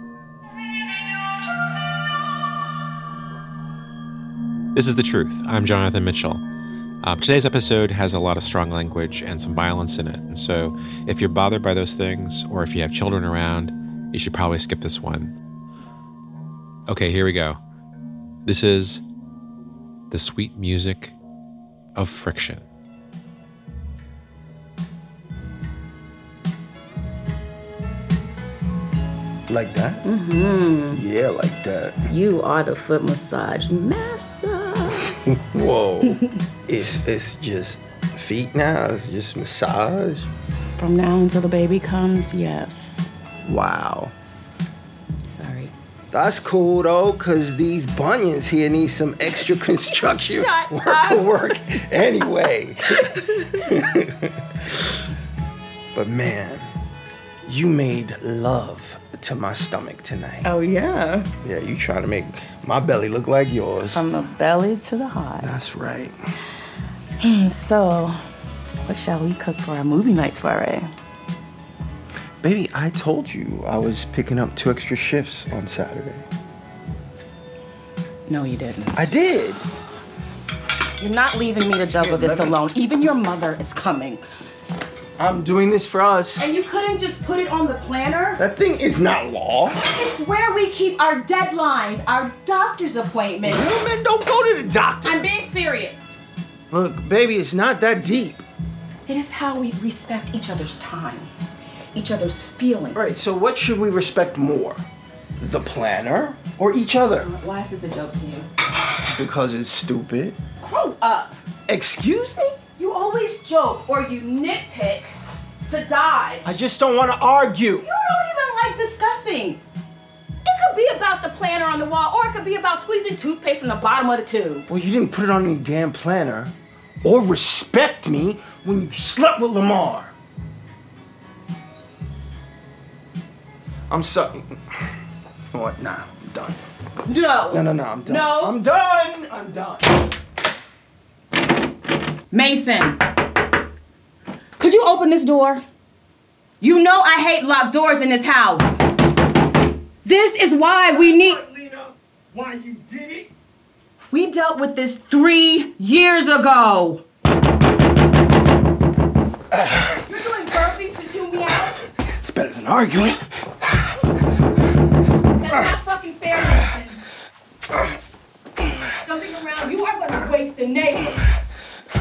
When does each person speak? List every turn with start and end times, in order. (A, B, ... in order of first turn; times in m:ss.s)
0:04.8-0:06.4 A
0:07.0-0:15.4 A
0:16.9-0:17.6 A
0:18.4-0:19.0 A
0:20.1-0:21.2 A
0:22.0-0:22.6 A
0:29.5-0:30.0 B
0:30.0-0:31.0 C
0:30.9-0:32.0 B
0:32.1-0:35.1 C
0:35.4-0:40.3 B
0:36.0-0:36.3 C
0:40.8-0:43.1 C
0:43.4-0:44.1 B
0:45.3-0:45.7 C
0:46.1-0:53.0 B
0:49.2-0:51.4 C
0:53.2-0:53.7 C
0:53.6-0:54.8 B
0:55.9-0:56.7 B
0:57.4-1:00.5 B
1:00.4-1:01.3 C
1:01.4-1:04.0 B
1:03.9-1:05.5 C
1:05.4-1:06.2 B
1:07.2-1:08.2 C
1:08.8-1:10.9 C
1:12.4-1:16.3 B
1:18.3-1:19.1 C
1:19.0-1:19.6 B
1:21.0-1:24.2 C
1:22.0-1:22.6 B
1:25.2-1:26.5 B
1:26.4-1:28.4 C
1:28.4-1:29.8 B
1:29.9-1:33.8 C
1:33.4-1:35.3 B
1:35.0-1:36.2 C
1:36.7-1:38.4 B
1:39.1-1:41.3 C
1:41.9-1:43.2 C
1:42.9-1:44.8 B
1:45.4-1:47.3 B
1:47.2-1:48.5 C
1:49.2-1:50.4 B
1:50.6-1:51.4 C
1:51.7-1:52.6 B
1:52.8-1:55.1 C
1:55.7-1:56.6 C
1:56.4-1:57.9 B
1:57.8-1:59.6 C
2:00.4-2:04.7 C
2:04.7-2:10.2 B
2:13.9-2:14.9 B
2:15.5-2:19.9 B
2:17.1-2:18.6 C
2:22.3-2:23.0 C
2:24.6-2:25.6 C
2:26.6-2:28.8 C
2:30.0-2:31.4 C
2:30.9-2:33.3 B
2:34.1-2:37.0 C
2:39.9-2:41.8 C
2:42.2-2:43.8 B
2:45.3-2:47.0 C
2:49.0-2:51.3 C